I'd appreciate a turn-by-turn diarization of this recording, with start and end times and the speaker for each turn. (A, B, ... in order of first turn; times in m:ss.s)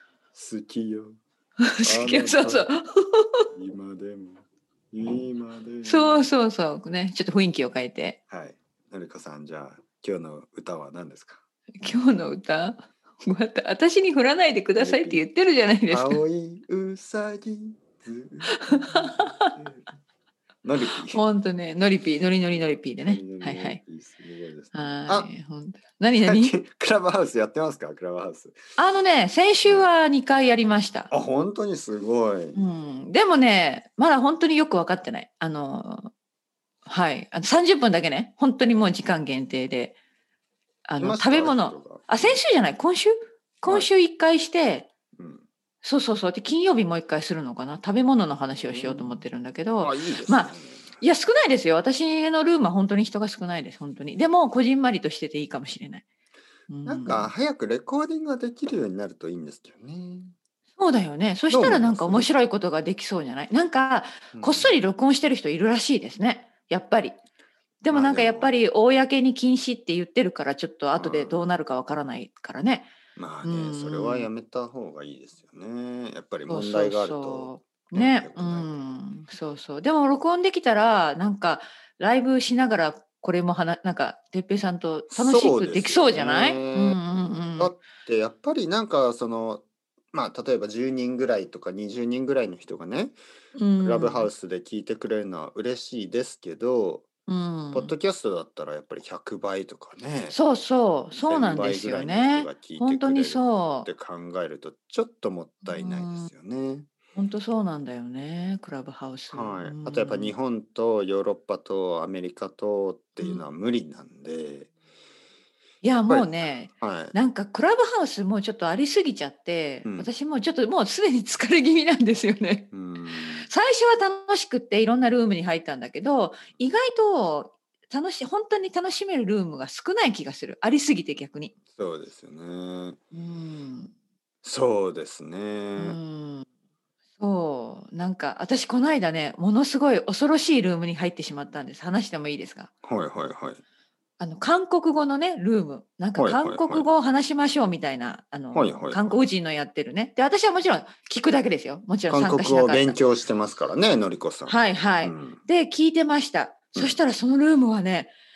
0:00.3-0:01.2 A
0:01.6-0:03.4 B
0:01.8-0:02.7 A
0:03.5-0:06.3 A
0:05.8-0:08.2 B
0:08.3-0:11.4 A
0:11.8-0:16.2 B
0:14.8-0:15.2 A
0:15.9-0:19.9 A
0:18.5-0:19.5 B
0:20.6-0:21.2 A
0:21.0-0:23.8 B
0:22.5-0:25.3 A
0:24.7-0:26.5 B
0:26.2-0:28.6 A
0:28.8-0:31.1 B
0:29.6-0:29.9 A
0:31.1-0:32.6 A
0:32.5-0:36.1 B
0:36.8-0:40.0 B
0:40.9-0:44.9 B
0:41.0-0:42.4 A
0:45.2-0:45.4 A
0:45.8-0:56.0 B
0:48.7-0:49.2 A
0:49.8-0:51.0 A
0:56.7-0:57.3 B
0:56.8-1:00.3 A
1:00.8-1:07.2 B
1:01.5-1:02.3 A
1:04.3-1:04.8 A
1:07.8-1:12.9 B
1:07.9-1:08.5 A
1:11.0-1:11.5 A
1:13.2-1:18.8 A
1:13.4-1:14.3 B
1:16.5-1:27.7 B
1:25.1-1:27.0 A
1:27.6-1:33.2 A
1:33.5-1:34.3 B
1:33.8-1:37.1 A
1:37.2-1:37.9 B
1:37.7-1:40.4 A
1:40.3-1:43.9 B
1:41.2-1:46.9 A
1:45.6-1:46.3 B
1:47.1-1:50.3 B
1:49.3-1:54.7 A
1:53.2-1:53.4 B
1:55.8-2:02.7 B
1:56.1-1:57.1 A
1:59.8-2:00.1 A
2:02.7-2:03.5 A
2:03.4-2:11.5 B
2:11.7-2:13.0 A
2:13.1-2:13.9 B
2:14.4-2:16.0 A
2:15.8-2:16.5 B
2:17.2-2:22.7 B
2:22.8-2:23.6 A
2:24.2-2:33.0 B
2:26.2-2:26.9 A
2:28.5-2:29.2 A
2:32.1-2:35.4 A
2:34.4-2:38.1 B